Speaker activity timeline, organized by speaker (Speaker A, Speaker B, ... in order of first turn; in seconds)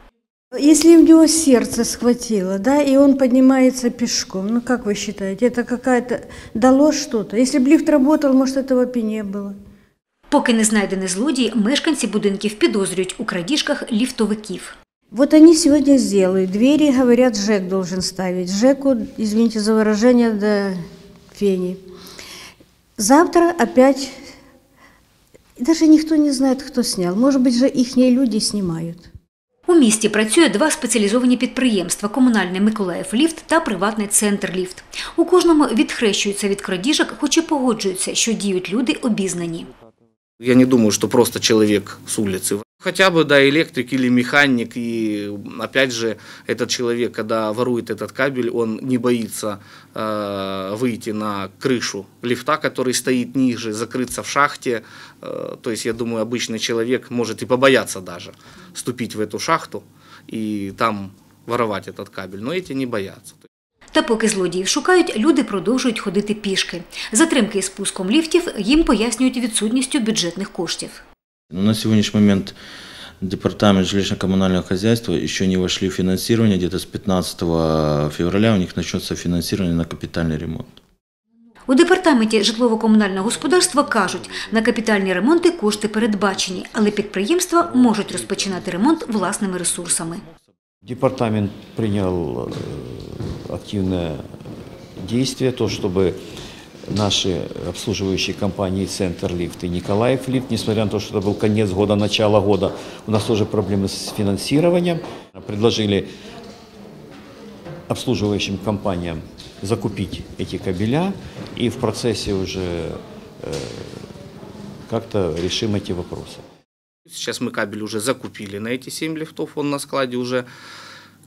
Speaker A: 0.5-9.6, 15.1-20.8, 21.3-21.8, 23.0-24.1, 25.6-29.1
Speaker B: 10.3-14.7, 29.7-39.7, 63.9-71.0, 81.7-90.2
Speaker C: 40.4-63.5, 117.1-120.5
Speaker D: 71.5-72.5, 73.2-80.8
Speaker E: 90.8-94.2, 95.0-96.2, 96.9-106.1, 107.9-114.1, 114.9-116.4